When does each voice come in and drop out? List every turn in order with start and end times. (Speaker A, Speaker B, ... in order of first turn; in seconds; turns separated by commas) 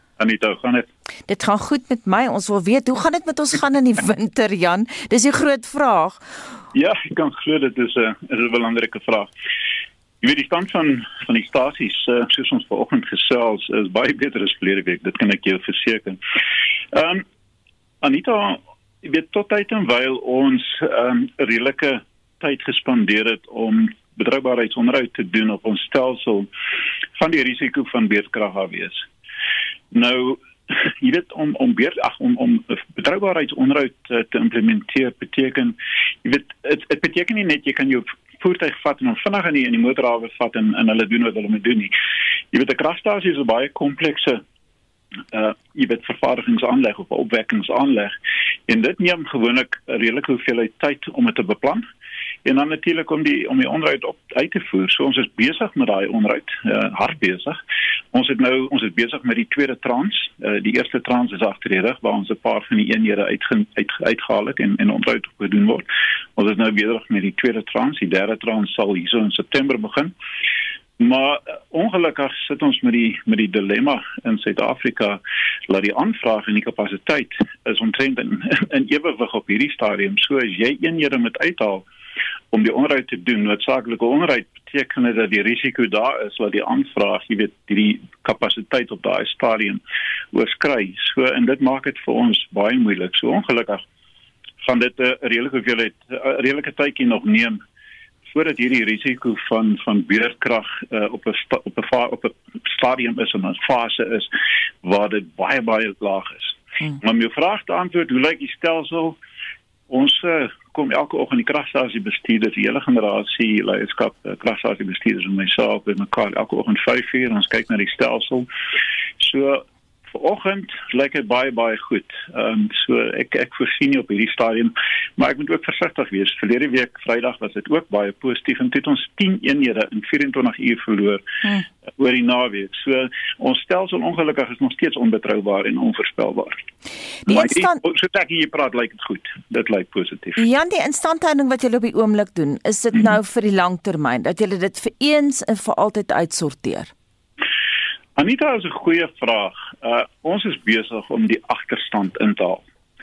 Speaker A: 0.2-0.9, Speaker B: 1.3-6.2, Speaker A: 6.7-9.3, Speaker A: 10.2-16.2, Speaker A: 16.9-17.2, Speaker A: 18.0-26.5, Speaker A: 27.2-29.1, Speaker A: 29.9-41.9, Speaker A: 42.5-44.4, Speaker A: 45.3-48.1, Speaker A: 48.7-51.9, Speaker A: 52.5-57.6, Speaker A: 58.1-70.1, Speaker A: 71.0-81.8, Speaker A: 82.5-89.8, Speaker A: 90.3-93.8, Speaker A: 94.6-97.6, Speaker A: 98.3-104.3, Speaker A: 104.8-109.2, Speaker A: 109.9-118.5, Speaker A: 119.2-131.2, Speaker A: 132.0-136.6, Speaker B: 137.3-137.8, Speaker A: 137.3-140.4, Speaker B: 140.4-146.9, Speaker A: 148.2-152.6